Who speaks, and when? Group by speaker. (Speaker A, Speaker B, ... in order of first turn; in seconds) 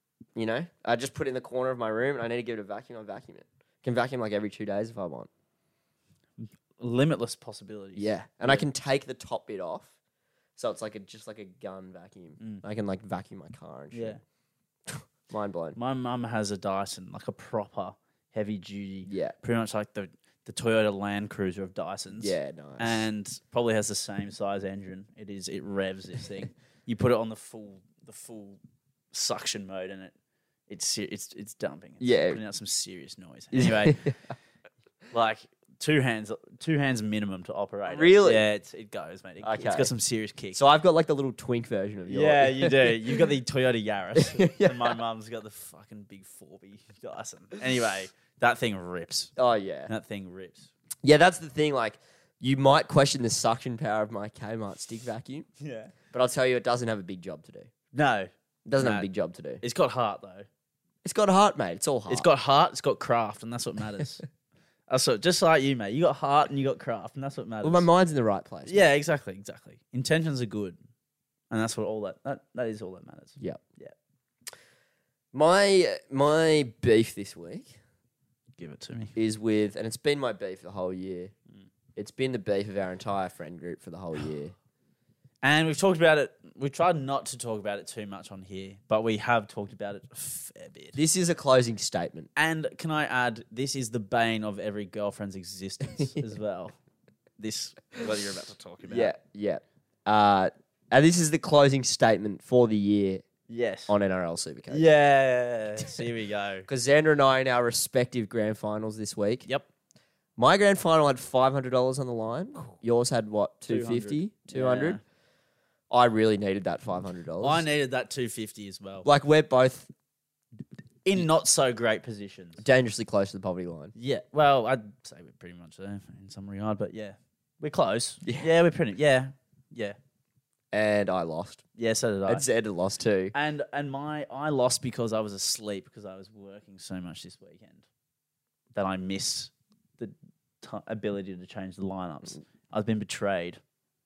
Speaker A: 0.3-5.3, 8.0-9.9, 10.6-14.2, 14.9-15.8, 19.1-19.4, 22.2-23.0, 32.0-32.4, 33.5-34.2, 37.9-38.4, 39.4-39.9, 40.5-43.2, 44.1-44.9, 49.4-49.9, 51.0-55.5, 56.1-57.7, 58.6-59.6, 61.0-62.3, 67.6-68.9, 75.3-77.7, 79.2-81.3, 82.0-84.5, 90.9-92.3, 98.9-103.2, 103.9-104.8, 106.7-109.5, 110.4-115.0, 115.9-117.6, 119.0-119.9, 122.6-123.9, 128.2-128.5, 130.7-131.6, 132.3-133.3
Speaker B: 6.4-8.7, 13.9-14.2, 15.8-28.6, 29.1-30.1, 30.7-34.1, 35.1-40.6, 42.1-49.3, 49.9-50.7, 55.6-55.9, 57.9-59.1, 59.6-60.5, 62.1-64.2, 64.9-67.8, 68.7-70.8, 71.5-73.9, 78.6-79.1, 85.4-91.0, 92.3-96.8, 97.4-99.1, 103.5-103.9, 104.7-106.7, 113.7-115.0, 117.4-119.1, 121.0-122.6, 123.9-129.9, 131.8-132.4, 133.3-137.8, 138.7-143.6